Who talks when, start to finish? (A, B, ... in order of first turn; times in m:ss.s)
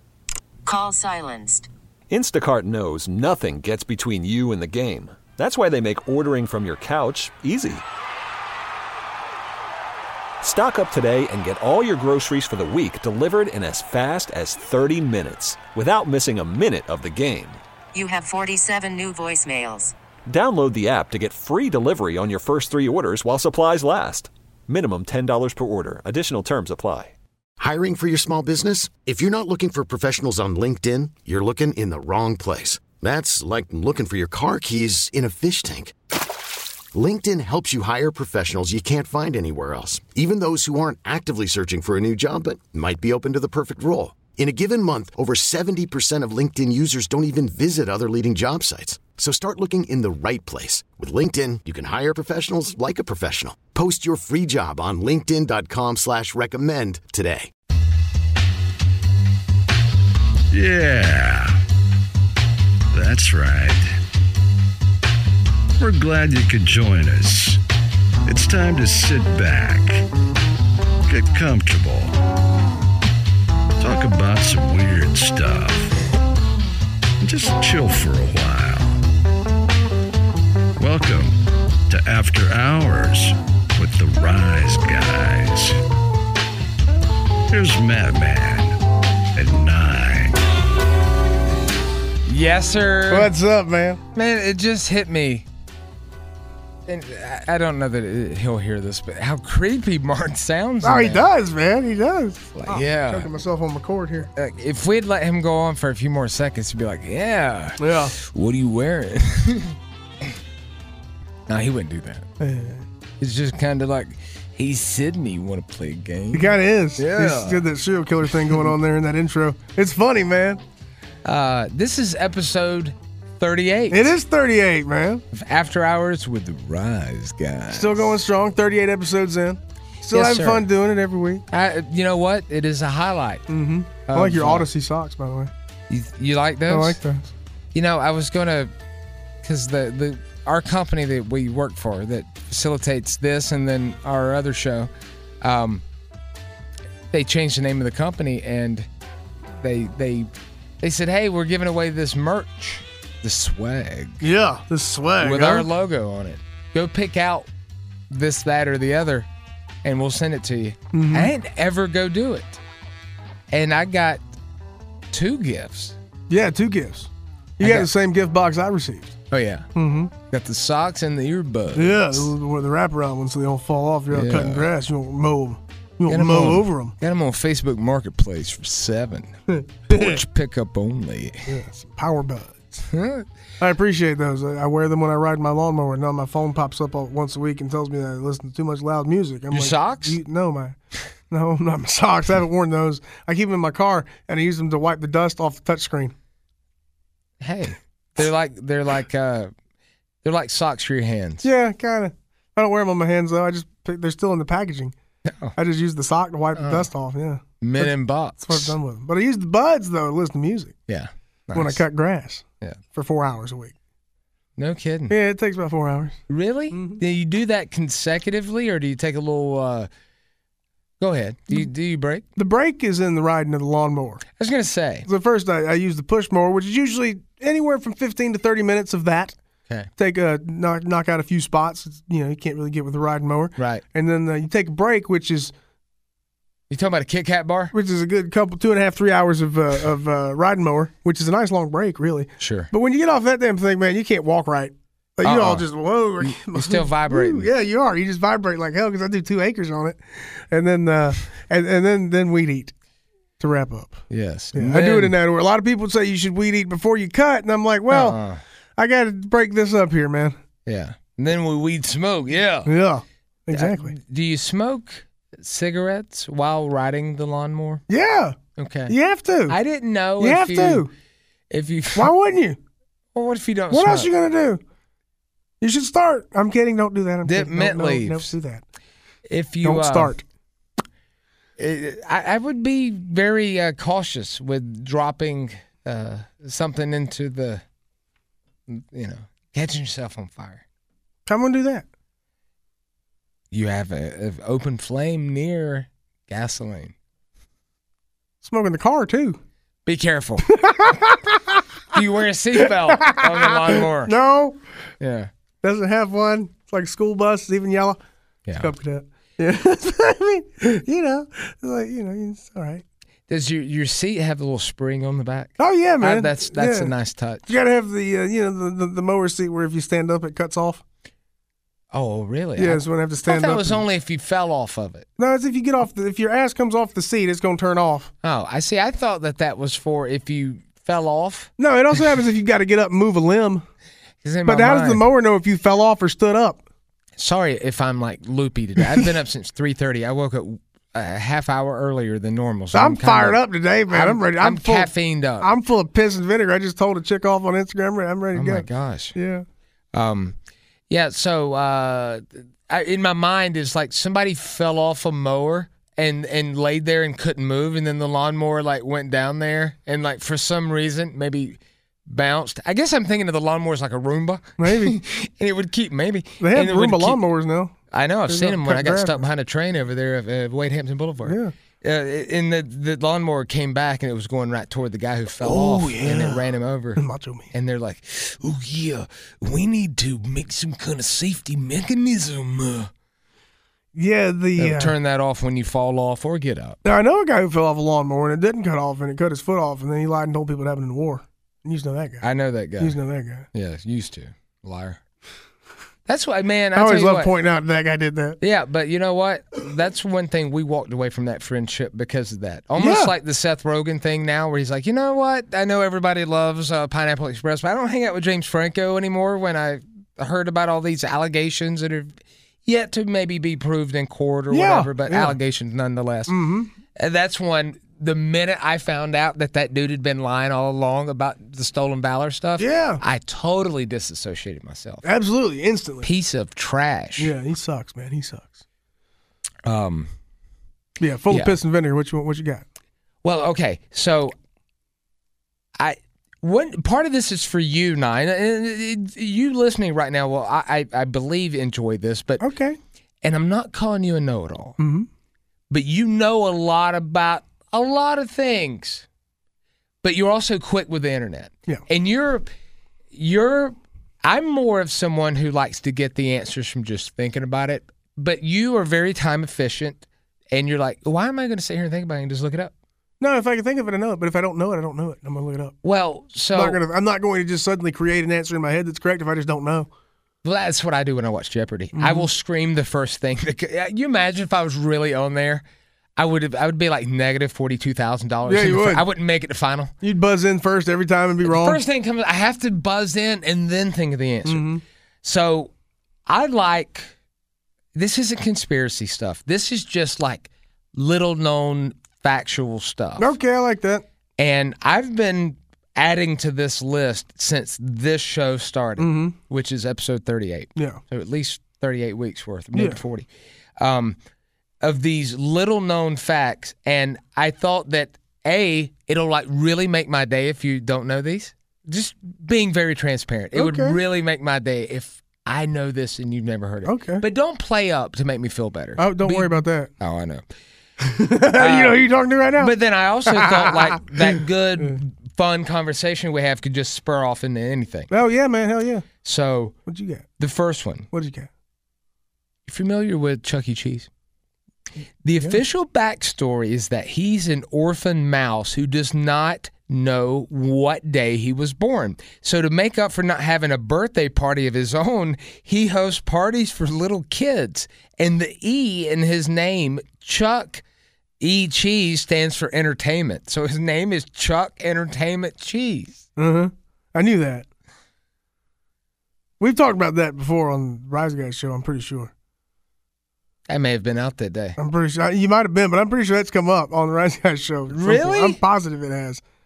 0:00.6-0:01.7 A
0:02.1-0:07.8 B
0:10.4-0:17.6 B
0:17.9-0:19.9 A
0:20.3-0:27.1 B
0:27.6-0:35.9 C
0:36.9-0:57.5 C
1:00.5-1:01.6 D
1:02.9-1:04.0 D
1:05.8-1:07.6 D
1:08.2-1:10.0 D
1:11.0-1:12.2 D
1:13.8-1:15.9 D
1:17.2-1:19.0 D
1:20.8-1:25.8 D
1:27.5-1:28.8 D
1:29.3-1:30.4 D
1:32.2-1:33.3 E
1:33.1-1:34.0 F
1:34.1-1:35.4 E
1:36.9-1:41.3 E
1:40.8-1:44.3 F
1:42.5-1:43.3 E
1:44.3-1:49.8 E
1:47.8-1:48.1 F
1:51.5-1:52.2 E
1:52.4-1:52.8 F
1:53.2-1:57.6 E
1:56.3-2:00.6 F
2:01.2-2:04.1 E
2:03.9-2:05.2 F
2:05.3-2:08.1 E
2:07.7-2:11.4 F
2:10.1-2:10.6 E
2:11.5-2:13.4 E
2:13.5-2:15.5 F
2:14.0-2:14.7 E
2:15.9-2:17.0 E
2:16.7-2:17.3 F
2:17.7-2:18.7 E
2:19.4-2:24.9 E
2:25.4-2:25.8 E
2:27.1-2:28.9 E
2:29.6-2:30.3 E
2:30.8-2:34.2 E
2:34.2-2:35.7 F
2:35.2-2:37.5 E
2:38.1-2:39.3 E
2:39.8-2:42.6 E
2:40.9-2:41.3 F
2:43.5-2:44.2 E
2:45.1-2:45.9 E
2:46.3-2:49.1 F
2:47.6-2:47.9 E
2:49.3-2:49.7 E
2:49.7-2:50.1 F
2:50.2-2:52.3 E
2:51.7-2:56.9 F
2:54.1-2:54.7 E
2:56.1-2:59.3 E
2:59.5-3:00.2 F
2:59.9-3:01.5 E
3:01.5-3:02.8 F
3:02.9-3:03.3 E
3:03.6-3:10.8 F
3:09.5-3:10.2 E
3:11.3-3:16.1 F
3:17.4-3:19.5 E
3:20.2-3:21.4 E
3:21.4-3:24.9 F
3:25.2-3:25.5 E
3:25.6-3:30.7 F
3:26.5-3:26.9 E
3:27.6-3:28.8 E
3:30.9-3:31.8 E
3:31.5-3:33.7 F
3:34.6-3:35.1 E
3:35.1-3:36.2 F
3:36.3-3:39.9 E
3:36.7-3:37.0 F
3:41.0-3:42.2 E
3:42.4-3:44.2 F
3:44.4-3:45.1 E
3:45.0-3:49.4 F
3:50.0-3:55.5 F
3:53.6-3:53.8 E
3:56.7-3:57.7 E
3:57.7-4:12.7 F
4:02.4-4:02.7 E
4:05.2-4:05.7 E
4:06.2-4:07.5 E
4:13.4-4:14.0 F
4:14.1-4:15.1 E
4:14.5-4:18.2 F
4:17.9-4:18.4 E
4:18.8-4:20.4 F
4:20.6-4:22.7 E
4:22.6-4:23.9 F
4:23.5-4:27.8 E
4:27.9-4:28.4 F
4:28.6-4:28.9 E
4:28.9-4:29.6 F
4:29.5-4:30.9 E
4:30.2-4:30.9 F
4:31.5-4:32.1 E
4:32.0-4:32.6 F
4:33.1-4:34.1 E
4:33.7-4:34.6 F
4:35.6-4:38.6 F
4:37.2-4:38.3 E
4:39.3-4:40.1 E
4:39.6-4:40.2 F
4:41.6-4:47.6 E
4:48.7-4:50.6 E
4:51.2-4:51.8 F
4:53.5-4:56.9 E
4:58.4-4:59.4 F
4:59.8-5:00.5 E
5:00.5-5:01.6 F
5:01.9-5:04.1 E
5:02.6-5:04.6 F
5:05.0-5:05.3 E
5:05.6-5:08.0 F
5:08.6-5:12.8 F
5:13.3-5:17.5 E
5:15.6-5:16.9 F
5:17.5-5:20.8 F
5:21.9-5:25.1 E
5:22.6-5:23.8 F
5:25.2-5:28.1 F
5:28.2-5:31.5 E
5:31.6-5:33.6 F
5:34.2-5:35.0 E
5:34.4-5:36.6 F
5:37.2-5:45.5 E
5:42.7-5:49.4 F
5:48.3-5:49.1 E
5:49.9-5:50.4 E
5:50.9-6:07.2 E
6:04.6-6:05.0 F
6:06.4-6:07.7 F
6:07.9-6:22.9 E
6:08.3-6:09.2 F
6:11.2-6:11.5 F
6:15.4-6:16.4 F
6:17.0-6:17.5 F
6:23.9-6:24.9 F
6:24.6-6:26.8 E
6:26.8-6:32.2 F
6:32.2-6:33.0 E
6:32.8-6:33.5 F
6:33.5-6:35.0 E
6:36.1-6:37.3 E
6:36.7-6:38.4 F
6:38.4-6:56.4 E
6:42.8-6:43.1 F
6:54.5-6:55.4 F
6:56.3-6:56.7 F
6:57.0-7:05.0 E
7:02.6-7:03.0 F
7:05.0-7:06.1 F
7:06.0-7:07.3 E
7:07.2-7:08.6 F
7:09.6-7:10.1 E
7:11.0-7:12.6 F
7:11.3-7:11.6 E
7:13.2-7:14.3 E
7:15.8-7:22.4 E
7:22.4-7:22.8 F
7:23.2-7:24.8 E
7:24.8-7:25.1 F
7:25.7-7:29.0 E
7:30.0-7:32.5 E
7:33.1-7:42.7 E
7:43.2-7:45.8 F
7:45.8-7:46.8 E
7:46.5-7:49.9 F
7:50.4-7:55.6 E
7:52.0-7:52.3 F
7:56.2-7:59.9 E
7:58.4-7:59.0 F
8:00.0-8:01.8 F
8:01.4-8:04.7 E
8:04.4-8:04.8 F
8:05.2-8:05.7 E
8:06.3-8:07.1 E
8:07.9-8:13.3 E
8:13.2-8:14.0 F
8:14.4-8:23.3 E
8:19.0-8:19.4 F
8:20.8-8:21.0 F
8:23.8-8:24.2 E
8:24.8-8:40.4 E
8:33.5-8:34.0 F
8:36.8-8:37.2 F
8:39.0-8:39.9 F
8:41.0-8:42.7 F
8:41.6-8:42.0 E
8:42.6-8:48.1 E
8:43.3-8:45.0 F
8:48.1-8:49.0 F
8:49.2-8:49.8 E
8:49.9-8:50.3 F
8:50.4-8:51.1 E
8:51.1-8:51.5 F
8:52.7-8:54.1 E
8:55.2-9:10.8 E
9:11.4-9:16.2 E
9:16.4-9:17.6 F
9:19.6-9:22.3 F
9:23.7-9:24.8 E
9:24.8-9:29.4 F
9:27.9-9:28.6 E